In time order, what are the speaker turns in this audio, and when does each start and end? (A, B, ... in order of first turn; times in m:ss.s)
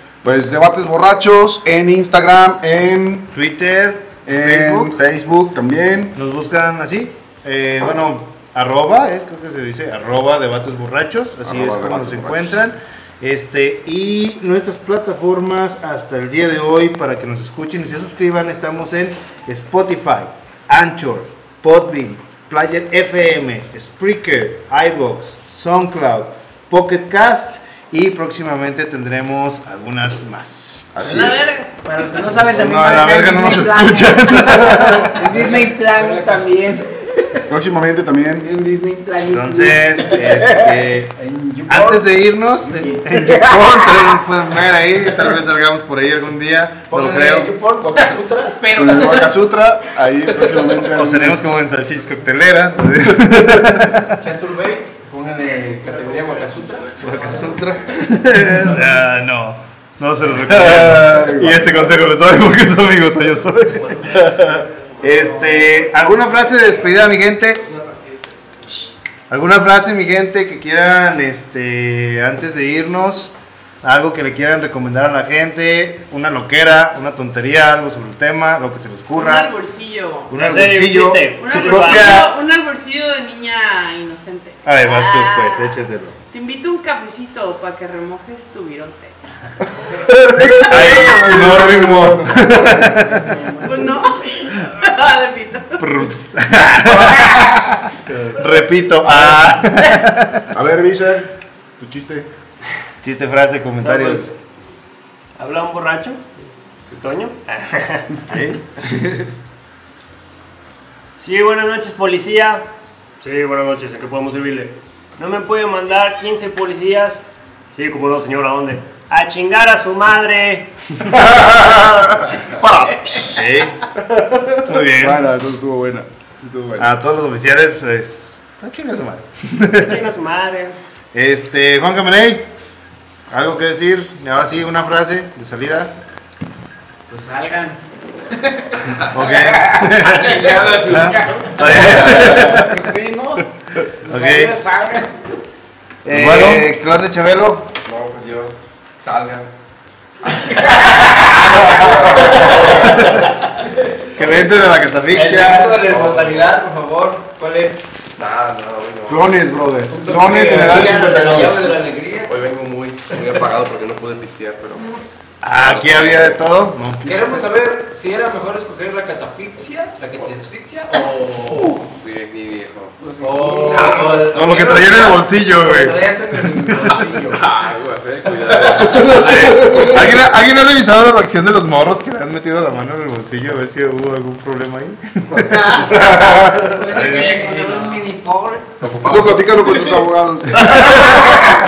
0:00.2-0:03.3 A
0:03.3-0:04.9 B
0:04.2-0:06.1 A
0:06.1-0:31.0 B
0:11.4-0:12.6 A
0:30.9-0:31.5 A
0:31.0-0:31.8 C
0:31.8-0:37.5 D
0:32.5-0:35.2 B
0:35.1-0:36.7 E
0:37.5-0:38.5 A
0:38.4-0:40.9 D
0:39.3-0:41.1 B
0:41.1-0:43.1 E
0:41.7-0:47.5 B
0:42.8-0:44.2 D
0:46.9-0:48.6 E
0:48.4-0:49.4 C
0:48.7-0:51.5 A
0:50.9-0:54.2 B
0:54.2-0:57.0 E
0:57.0-1:04.5 B
1:00.3-1:02.0 A
1:04.1-1:04.6 A
1:05.0-1:07.6 B
1:07.5-1:08.6 F
1:09.3-1:13.3 B
1:13.8-1:19.5 B
1:19.1-1:20.3 C
1:20.3-1:22.3 B
1:20.3-1:22.2 G
1:21.4-1:29.2 C
1:24.6-1:26.2 B
1:30.0-1:33.3 A
1:30.4-1:33.4 B
1:30.5-1:31.0 C
1:33.6-1:35.9 C
1:35.8-1:40.5 B
1:37.0-1:37.5 A
1:39.0-1:39.6 A
1:40.5-1:42.3 A
1:43.0-1:44.4 B
1:43.8-1:44.3 G
1:45.4-1:46.2 G
1:46.9-1:48.1 G
1:48.3-1:49.3 B
1:51.2-1:52.7 G
1:53.2-2:00.7 G
2:01.0-2:06.9 A
2:03.3-2:03.8 B
2:04.6-2:05.2 B
2:06.8-2:10.0 B
2:09.8-2:10.8 G
2:11.1-2:12.4 B
2:13.3-2:15.9 B
2:17.1-2:17.8 D
2:18.3-2:23.4 D
2:19.1-2:22.8 B
2:20.0-2:22.5 E
2:23.8-2:24.6 B
2:24.0-2:25.1 D
2:26.0-2:27.7 B
2:26.0-2:26.7 A
2:27.8-2:29.5 F
2:30.7-2:31.1 D
2:30.7-2:33.2 E
2:31.0-2:33.2 F
2:31.4-2:32.4 A
2:32.9-2:33.3 B
2:34.1-2:36.0 B
2:35.1-2:37.8 E
2:35.8-2:36.5 F
2:38.2-2:39.3 F
2:39.1-2:41.7 A
2:39.9-2:42.3 E
2:42.2-2:44.9 F
2:45.4-2:47.5 B
2:45.6-2:46.3 E
2:45.6-2:46.5 F
2:47.0-2:51.8 E
2:51.8-2:54.9 F
2:53.0-2:57.5 E
2:53.3-2:53.9 D
2:54.1-2:56.0 B
2:57.2-2:59.6 F
2:58.6-2:59.2 E
2:58.8-3:06.1 B
2:59.7-3:00.0 A
3:05.4-3:08.0 C
3:05.9-3:06.7 A
3:06.0-3:08.7 D
3:06.8-3:07.5 B
3:08.8-3:10.0 F
3:09.0-3:11.4 A
3:10.6-3:11.0 B